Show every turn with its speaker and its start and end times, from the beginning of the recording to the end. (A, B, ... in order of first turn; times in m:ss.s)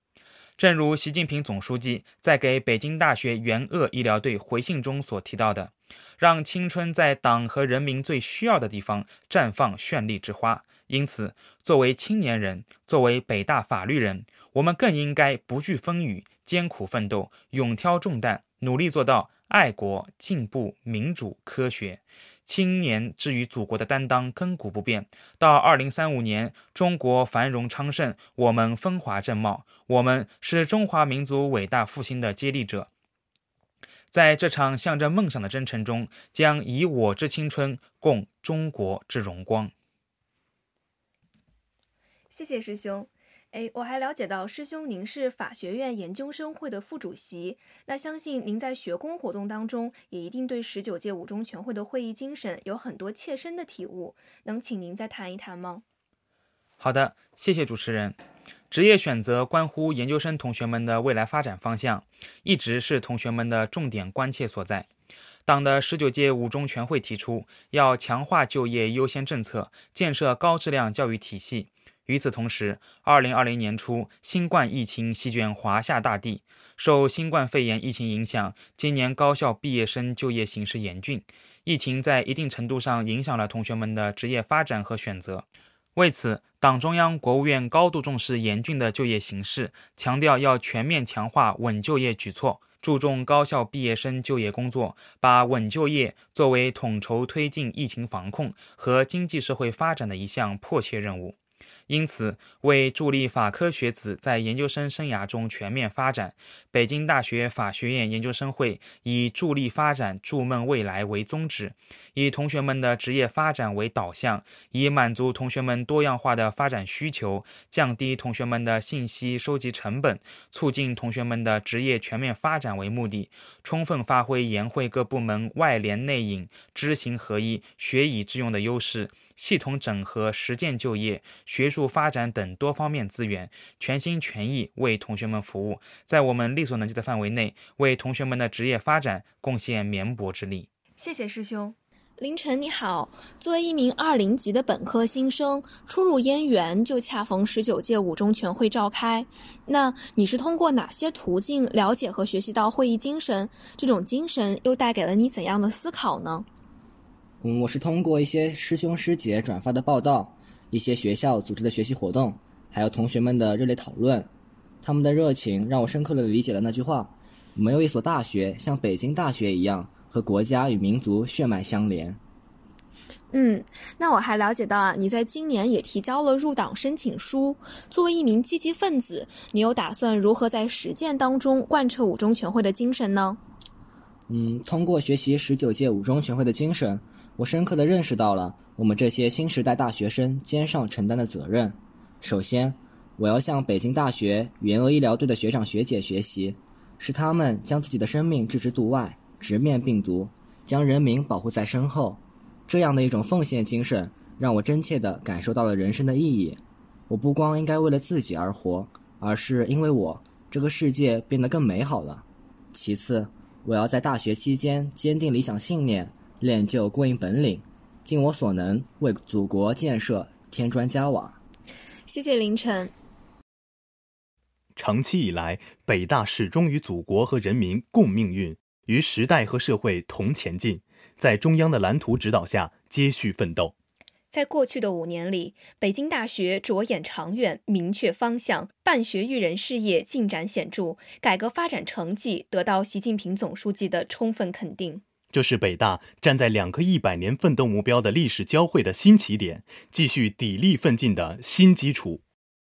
0:00.6-0:32.9 A
0:34.1-0:39.7 A
0:42.3-0:55.8 B
0:56.8-0:58.2 A
0:58.7-1:04.9 A
1:05.4-1:41.4 A
1:41.9-2:20.7 A
2:21.0-2:36.5 B
2:37.4-2:44.3 C
2:44.8-2:52.2 C
2:53.3-3:03.4 B
3:04.3-3:41.4 C
3:42.1-3:42.9 B
3:44.8-3:53.7 D
3:54.3-4:05.0 B
4:05.3-4:12.2 D